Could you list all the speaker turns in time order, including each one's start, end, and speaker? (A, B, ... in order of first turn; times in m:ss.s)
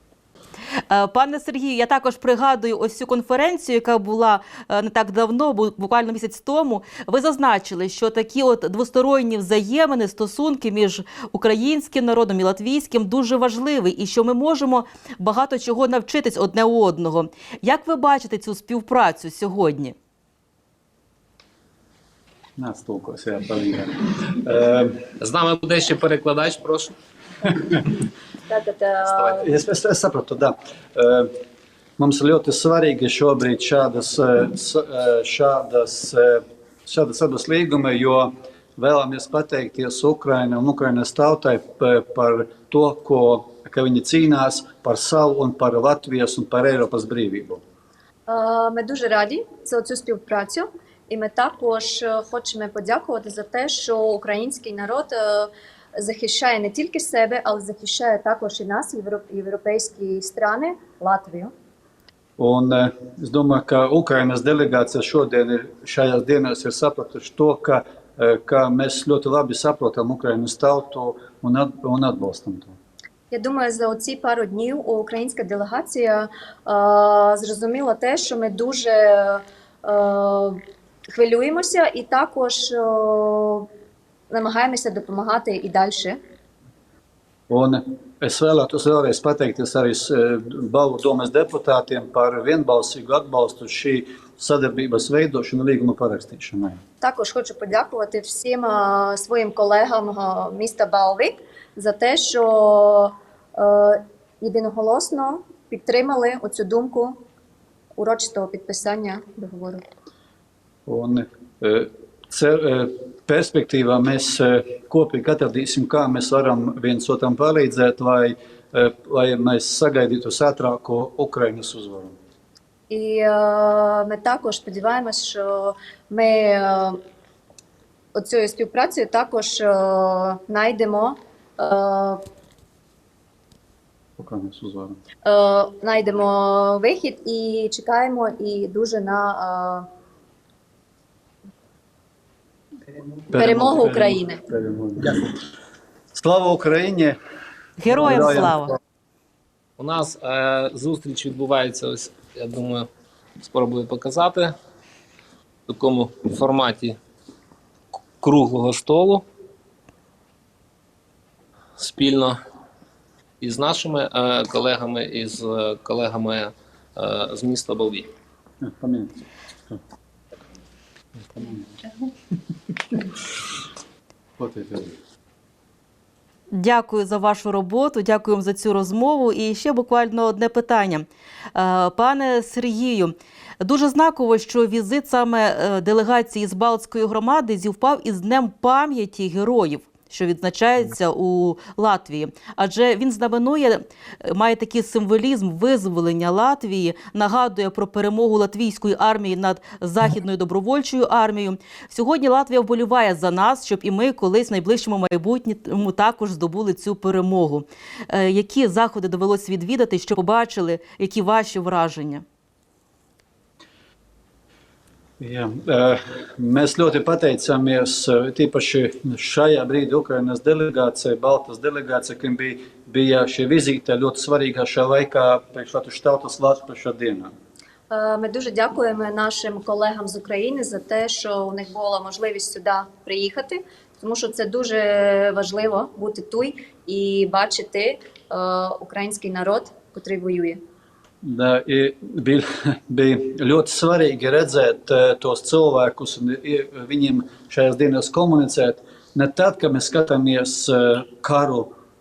0:00.9-0:19.9 A
0:22.6-0:25.1 B
0:25.2-0:26.9 C
0:27.7-0:27.9 B
0:28.5-0:29.5 D
0:29.1-0:29.4 C
0:29.4-0:31.3 B
0:32.0-0:47.6 B
0:48.3-1:01.5 D
1:02.4-1:12.7 B
1:13.3-1:20.6 D
1:21.1-1:23.6 D
1:24.3-1:26.2 D
1:27.5-1:36.8 B
1:37.0-1:47.1 D
1:48.0-1:49.8 D
1:50.9-2:02.1 B
2:02.9-2:07.0 D
2:08.2-2:12.2 D
2:14.2-2:15.0 B
2:15.2-2:19.8 D
2:23.3-2:25.2 B
2:23.3-2:24.4 D
2:26.1-2:27.2 B
2:27.8-2:28.7 A
2:27.9-2:28.7 B
2:29.8-2:32.9 C
2:33.4-2:34.5 C
2:35.7-2:37.0 C
2:38.2-2:39.2 C
2:41.8-2:42.4 C
2:43.4-2:48.1 C
2:48.6-2:49.1 B
2:51.3-2:51.7 B
2:54.4-2:54.9 B
2:56.5-3:32.2 A
3:35.2-3:47.3 B
3:47.9-4:00.6 D
4:01.2-4:11.7 B